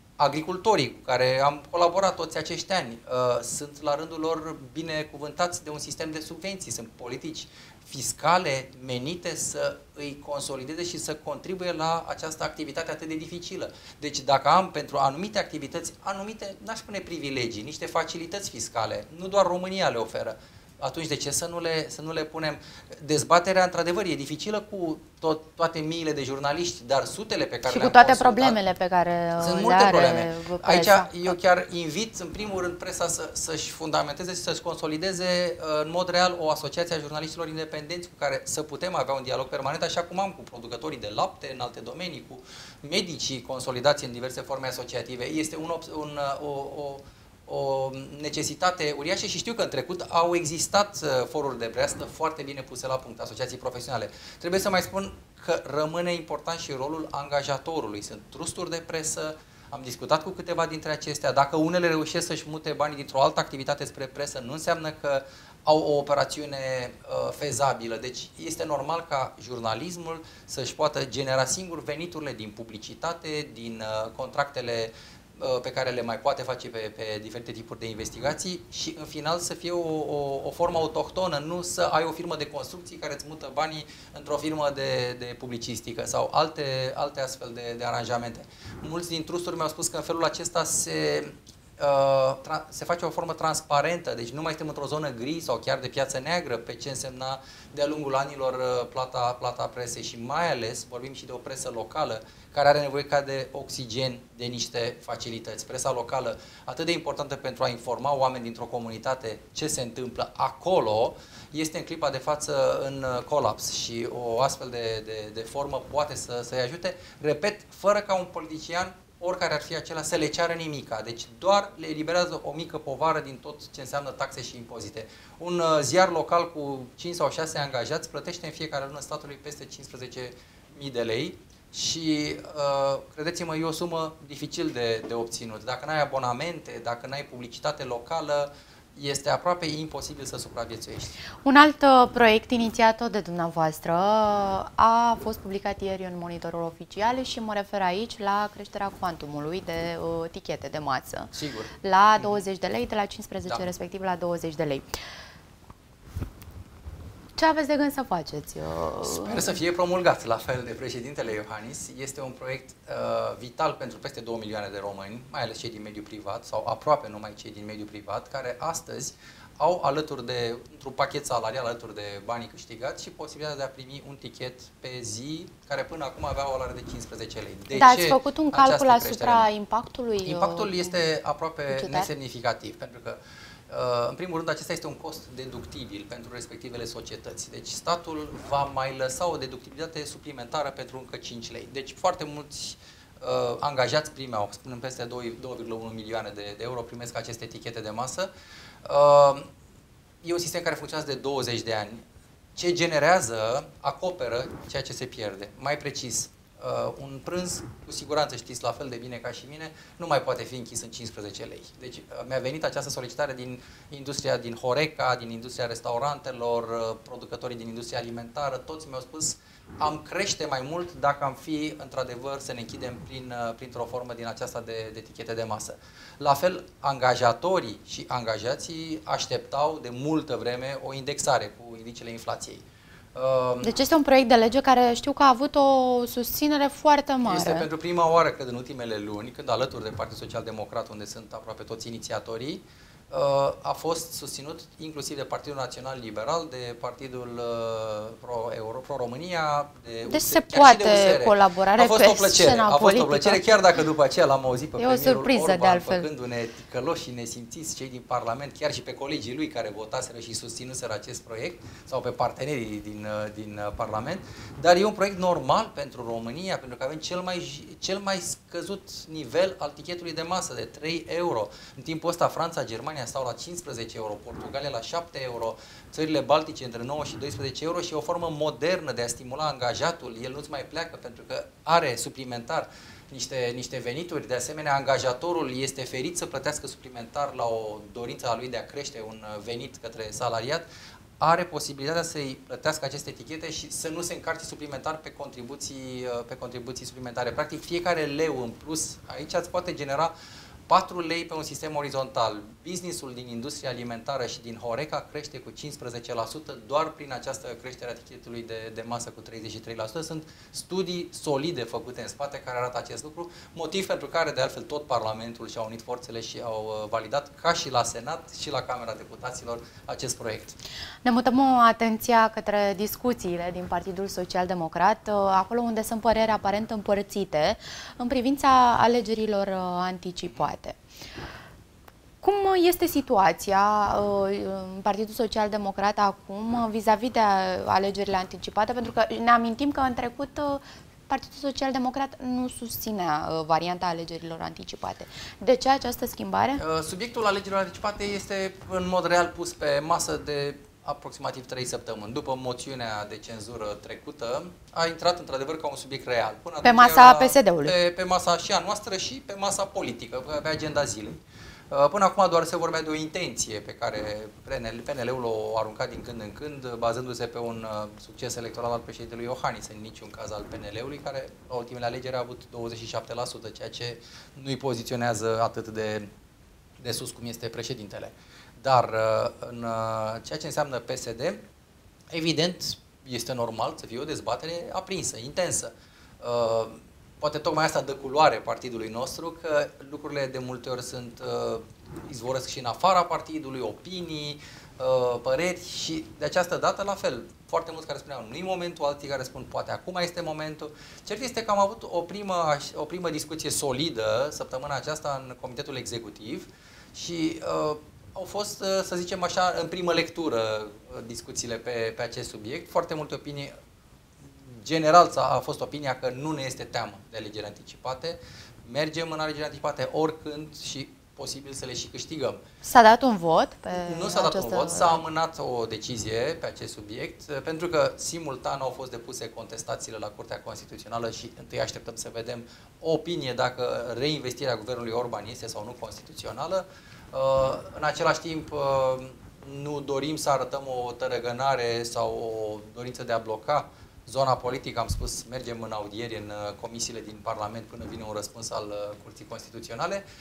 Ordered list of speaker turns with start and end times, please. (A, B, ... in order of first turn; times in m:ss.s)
0:00.2-0:28.6 A
0:27.6-0:31.1 B
0:29.4-2:21.2 A
2:21.4-2:34.9 B
2:31.3-2:32.4 A
2:37.4-2:39.6 B
2:39.0-2:59.5 A
2:57.7-3:00.9 B
3:00.2-3:03.2 A
3:01.7-3:02.1 B
3:03.7-3:18.3 A
3:18.8-3:19.5 A
3:20.2-3:22.0 A
3:22.6-3:52.6 A
3:53.1-3:53.7 A
3:53.6-3:57.7 B
3:57.2-4:50.6 A
4:10.1-4:13.6 B
4:14.8-4:16.1 B
4:51.2-5:00.1 A
5:00.7-5:20.6 A
5:21.0-5:30.8 B
5:32.2-5:46.6 B
5:46.6-6:16.1 A
5:56.6-5:57.7 B
6:16.8-6:21.4 A
6:22.1-6:53.5 A
6:54.2-7:02.4 A
7:02.6-7:05.0 B
7:03.7-7:30.0 A